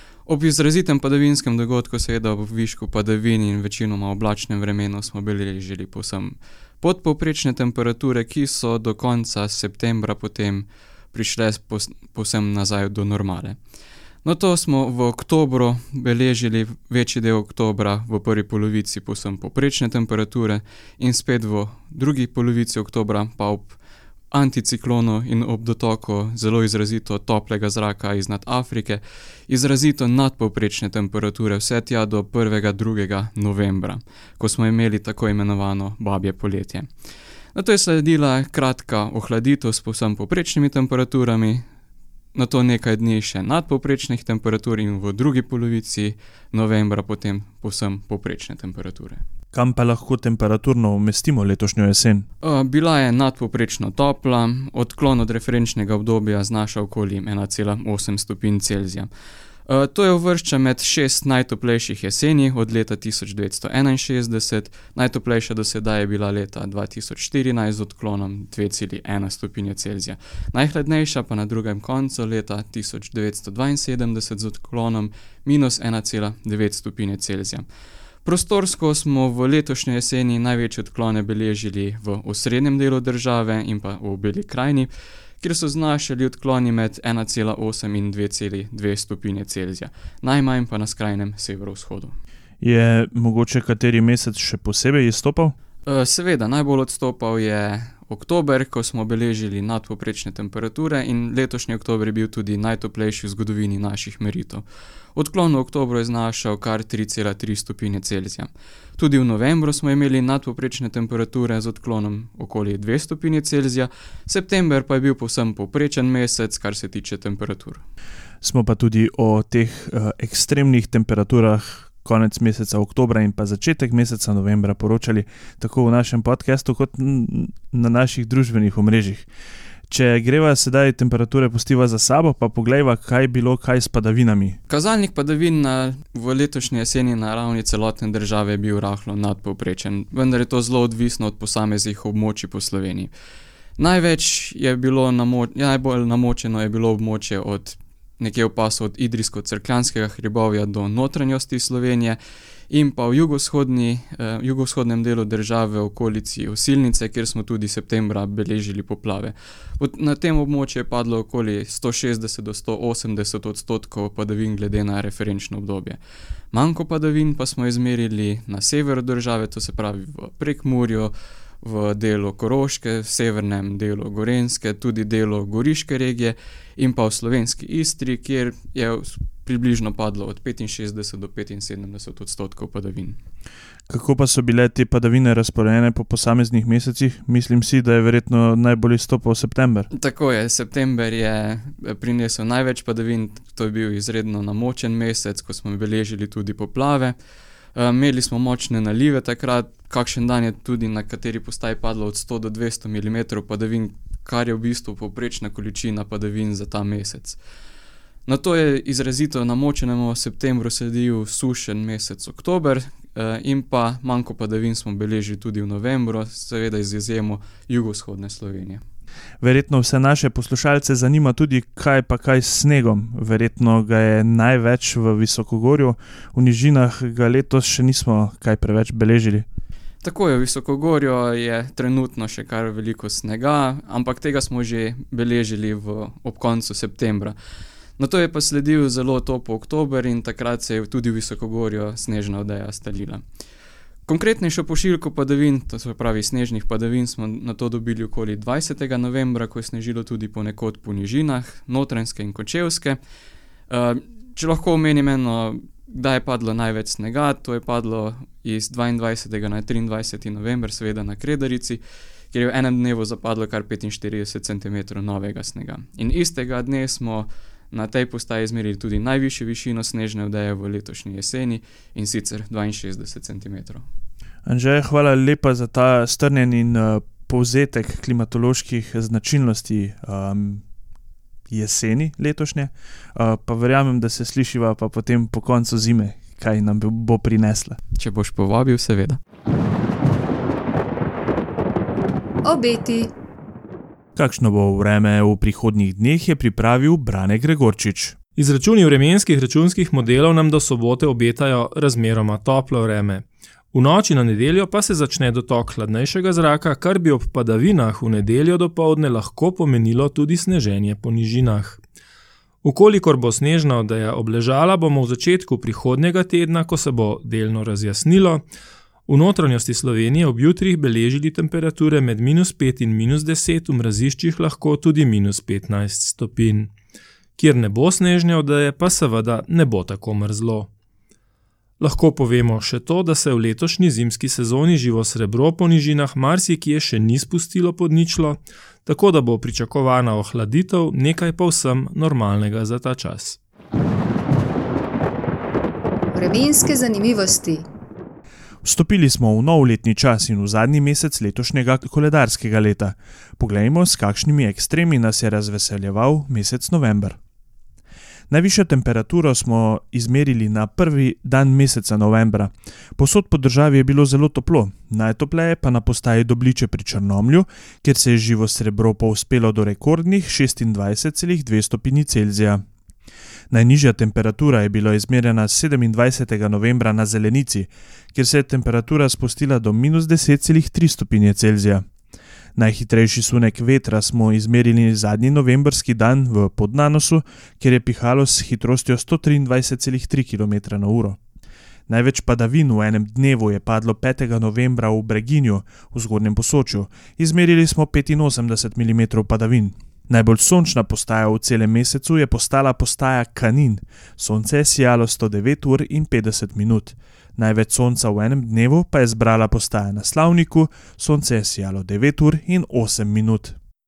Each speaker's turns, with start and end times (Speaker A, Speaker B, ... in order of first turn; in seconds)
Speaker A: 0.3-13.6, 14.2-23.8, 24.3-36.9, 37.5-41.6, 42.3-49.2, 52.4-59.1, 59.7-77.7, 78.2-92.2, 95.8-104.6, 105.2-117.8, 134.7-143.1, 143.8-152.2, 152.7-166.0, 166.5-183.2, 189.9-197.2, 197.8-207.4, 208.3-218.8, 230.0-237.3, 238.0-243.2, 244.1-253.0, 253.7-261.8, 262.3-273.8, 288.0-289.2
Speaker B: 49.5-52.2, 92.6-95.5, 118.4-129.3, 129.9-134.6, 183.9-189.9, 219.4-229.4, 274.4-280.6, 281.5-287.8, 294.1-298.1, 348.6-357.2, 358.3-372.6, 373.5-381.8, 382.6-391.2, 391.9-413.6
Speaker C: 292.4-293.1, 346.1-347.7
Speaker D: 298.4-311.8, 312.6-318.4, 319.1-326.7, 327.4-330.7, 331.8-343.4